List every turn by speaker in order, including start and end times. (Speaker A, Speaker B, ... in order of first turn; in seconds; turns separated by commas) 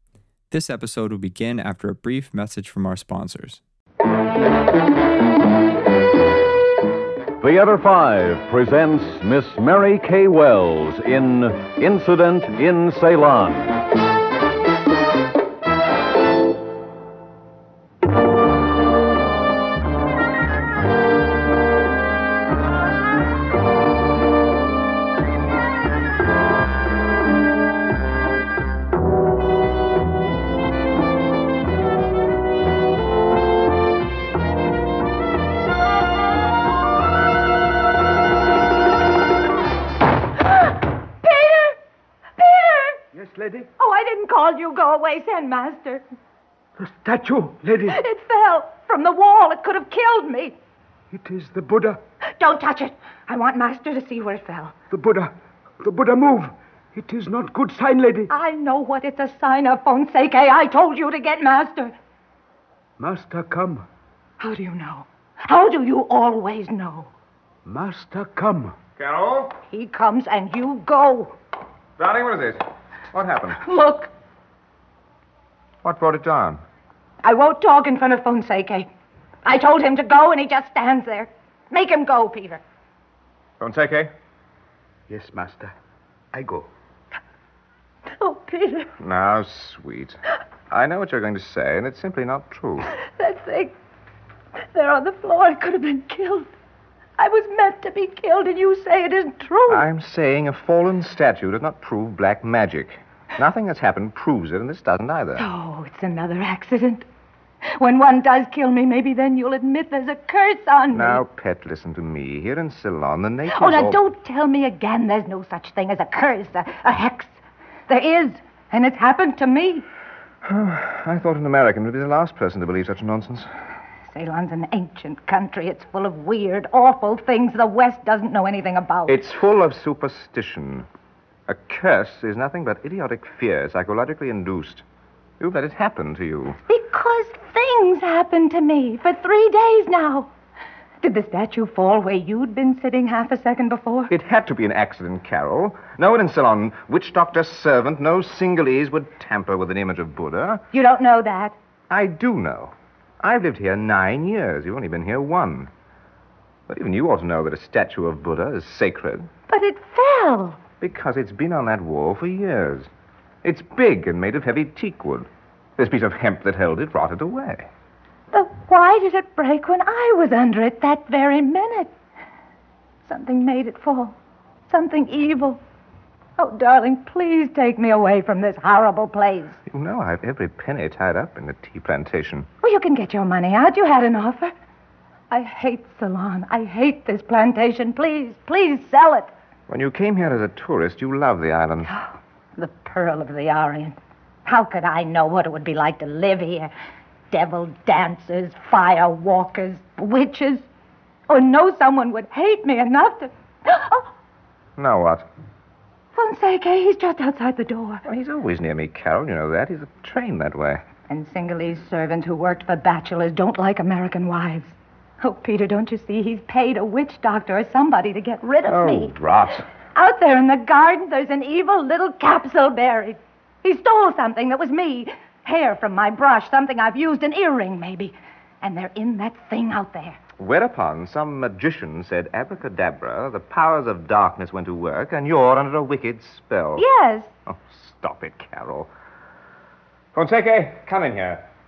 Speaker A: 0.5-3.6, Speaker B: 7.4-13.7, Speaker C: 40.5-41.8, Speaker C: 42.4-43.0, Speaker D: 43.1-43.7, Speaker C: 43.8-46.0, Speaker D: 46.8-48.0, Speaker C: 47.9-50.5, Speaker D: 51.1-52.0, Speaker C: 52.4-54.7, Speaker D: 54.9-58.3, Speaker C: 58.3-61.9, Speaker D: 63.0-63.9, Speaker C: 64.4-67.1, Speaker D: 67.6-68.7, Speaker E: 69.0-69.5, Speaker C: 69.7-71.4, Speaker E: 72.0-73.6, Speaker C: 73.6-74.1, Speaker E: 75.8-76.6, Speaker C: 77.2-78.9, Speaker C: 79.4-82.6, Speaker E: 83.6-84.1, Speaker D: 85.1-85.7, Speaker D: 86.3-86.7, Speaker C: 88.1-88.9, Speaker E: 89.0-90.2, Speaker E: 90.7-92.9, Speaker C: 92.9-93.7, Speaker C: 94.7-96.5, Speaker C: 97.2-99.8, Speaker E: 99.7-105.5, Speaker C: 105.4-107.0, Speaker C: 107.8-111.2, Speaker E: 110.9-114.0, Speaker C: 113.5-119.8, Speaker E: 120.4-123.5, Speaker C: 124.1-129.2, Speaker E: 129.1-130.9, Speaker E: 131.5-134.8, Speaker E: 135.4-136.6, Speaker C: 136.7-140.3, Speaker C: 141.0-144.1, Speaker E: 144.1-150.6, Speaker C: 150.7-151.6, Speaker E: 151.9-155.7, Speaker E: 156.7-159.3, Speaker C: 159.5-160.6, Speaker E: 160.8-162.9, Speaker E: 163.4-167.7, Speaker C: 168.3-171.9, Speaker C: 173.0-174.2, Speaker C: 174.7-175.6, Speaker C: 176.4-179.6, Speaker E: 179.7-182.5, Speaker C: 182.6-184.5, Speaker C: 185.3-189.3, Speaker E: 189.7-191.9, Speaker C: 191.8-196.7, Speaker C: 197.3-200.7, Speaker C: 201.3-204.1, Speaker E: 204.8-205.3, Speaker C: 206.1-208.0, Speaker E: 208.0-210.8, Speaker C: 211.1-219.1, Speaker E: 218.7-219.6, Speaker C: 219.9-230.2, Speaker E: 230.4-236.8, Speaker C: 236.8-237.3, Speaker E: 237.4-238.9, Speaker E: 240.1-241.4